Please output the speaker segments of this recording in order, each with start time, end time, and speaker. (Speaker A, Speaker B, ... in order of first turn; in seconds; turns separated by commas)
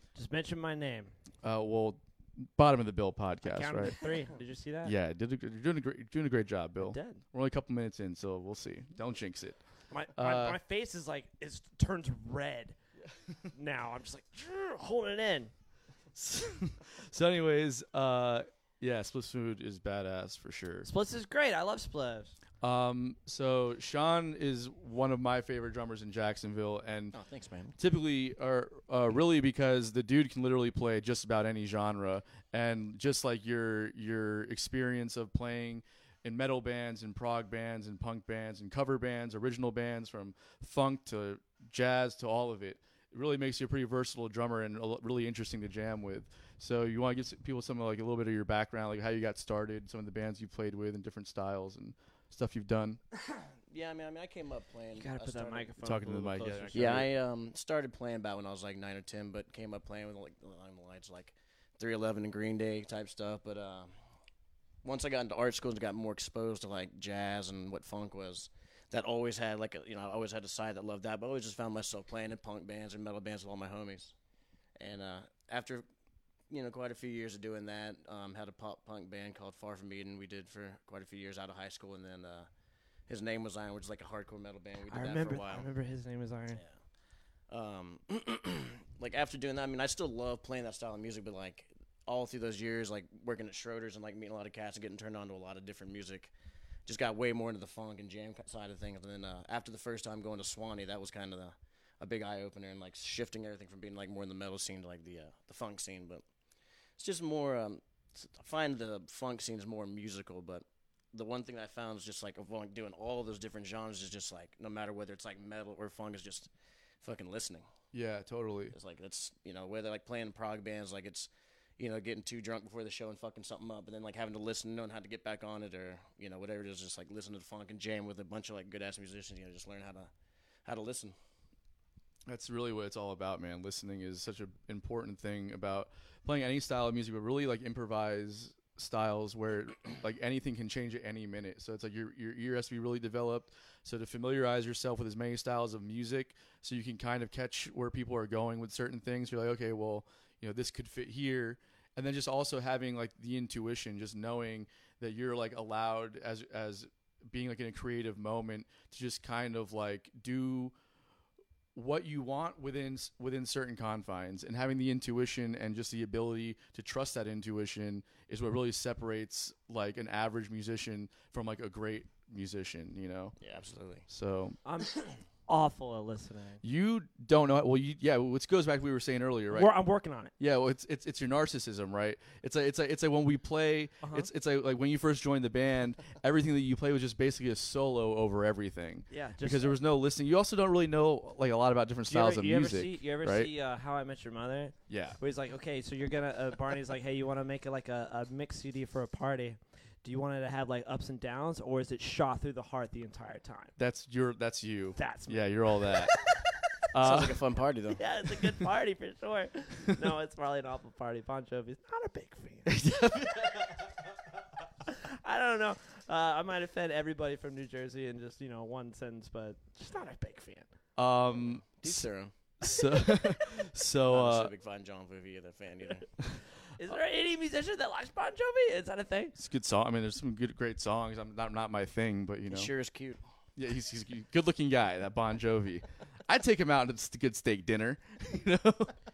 Speaker A: 0.1-1.1, Speaker B: 1.4-4.0, Speaker A: 3.4-4.9, Speaker B: 4.8-9.6, Speaker A: 6.8-7.2, Speaker A: 9.9-12.8, Speaker B: 10.2-10.6, Speaker A: 13.5-15.5, Speaker B: 16.1-20.9, Speaker A: 20.9-22.4, Speaker B: 22.6-27.2, Speaker C: 27.1-27.8, Speaker B: 27.8-53.0, Speaker C: 53.7-55.7, Speaker A: 55.0-57.0, Speaker B: 55.8-57.1, Speaker C: 56.7-63.9, Speaker C: 64.8-74.1, Speaker C: 74.8-75.8, Speaker C: 76.5-82.5, Speaker C: 83.1-85.7, Speaker A: 84.9-86.6, Speaker C: 87.5-96.3, Speaker C: 96.9-106.2, Speaker C: 107.0-116.5, Speaker C: 117.0-117.7, Speaker B: 117.9-118.8, Speaker C: 118.7-130.1, Speaker C: 130.7-131.2, Speaker B: 132.3-160.8, Speaker B: 161.8-173.4, Speaker C: 173.4-174.1, Speaker B: 174.1-174.6, Speaker A: 174.7-176.6, Speaker B: 176.6-179.7, Speaker A: 179.5-180.3, Speaker B: 180.4-193.5, Speaker A: 184.0-184.3, Speaker A: 189.1-189.8, Speaker A: 192.1-203.8, Speaker B: 194.9-195.2, Speaker B: 203.8-206.1, Speaker A: 205.0-206.5, Speaker B: 206.9-207.4, Speaker C: 207.0-208.0, Speaker A: 207.9-212.8, Speaker B: 212.7-213.7, Speaker A: 214.8-220.7, Speaker B: 221.0-222.1, Speaker C: 221.4-222.3, Speaker B: 222.6-224.5, Speaker C: 224.1-226.1, Speaker A: 226.8-229.3, Speaker B: 229.4-232.7, Speaker C: 232.5-233.2, Speaker B: 233.6-238.9